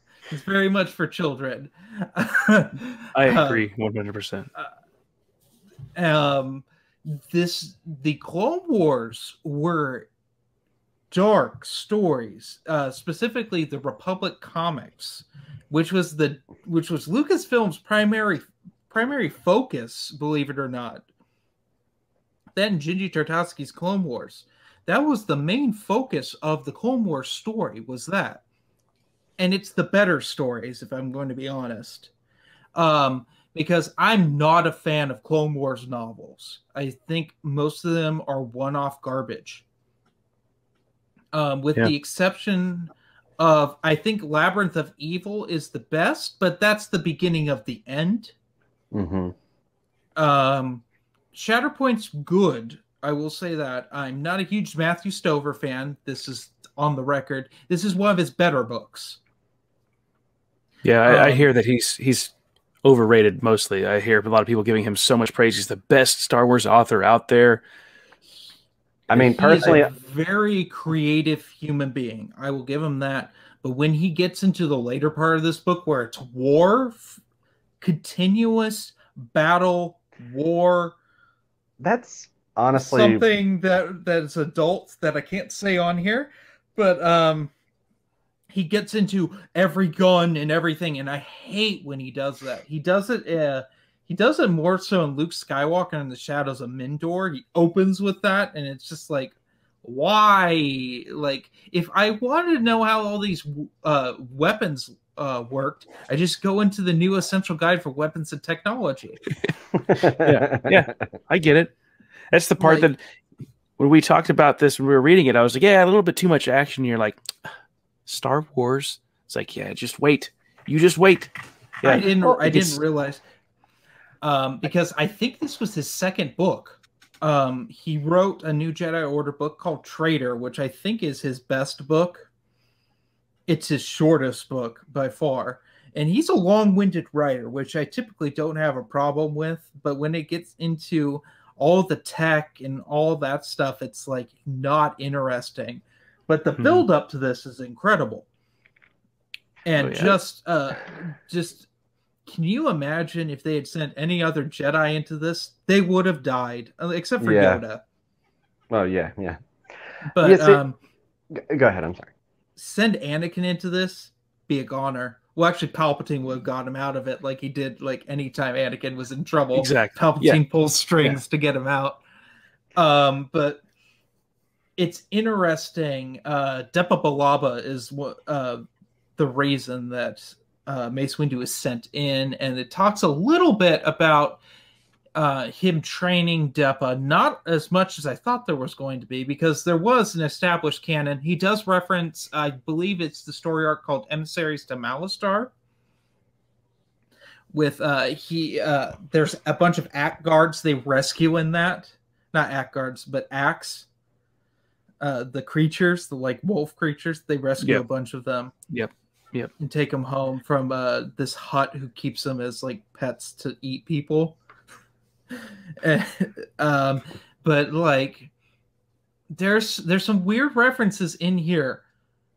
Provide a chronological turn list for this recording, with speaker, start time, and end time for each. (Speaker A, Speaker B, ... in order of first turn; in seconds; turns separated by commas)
Speaker A: 0.3-3.6, Speaker B: 3.1-4.5, Speaker A: 5.9-10.1, Speaker A: 11.1-21.0, Speaker A: 22.5-28.4, Speaker A: 29.4-32.1, Speaker A: 32.7-39.6, Speaker A: 41.3-48.3, Speaker C: 48.9-49.3, Speaker A: 50.1-59.2, Speaker B: 60.8-62.3, Speaker A: 61.0-61.5, Speaker B: 62.8-67.6, Speaker C: 69.1-69.9, Speaker A: 69.1-77.2, Speaker A: 77.8-81.0, Speaker C: 81.8-83.2, Speaker A: 82.8-87.5, Speaker A: 88.5-109.2, Speaker C: 109.9-110.9, Speaker B: 110.1-111.7, Speaker B: 112.3-113.0, Speaker A: 112.6-112.9, Speaker B: 113.8-117.3, Speaker B: 118.0-122.8, Speaker A: 121.8-123.2, Speaker A: 124.2-132.3, Speaker A: 133.5-148.2, Speaker B: 146.6-146.8, Speaker A: 149.6-151.7, Speaker B: 149.8-150.2, Speaker A: 152.3-157.8, Speaker C: 157.2-157.6, Speaker C: 158.7-159.4, Speaker A: 160.1-160.8, Speaker C: 160.2-160.6, Speaker C: 161.3-162.1, Speaker A: 162.6-172.0, Speaker B: 169.5-170.4, Speaker A: 172.8-173.6, Speaker A: 174.8-178.6, Speaker A: 179.2-184.4, Speaker A: 185.1-195.5, Speaker A: 197.5-203.8, Speaker A: 205.0-208.5, Speaker B: 208.7-209.5, Speaker A: 209.6-214.4, Speaker A: 215.8-218.3, Speaker A: 219.3-221.8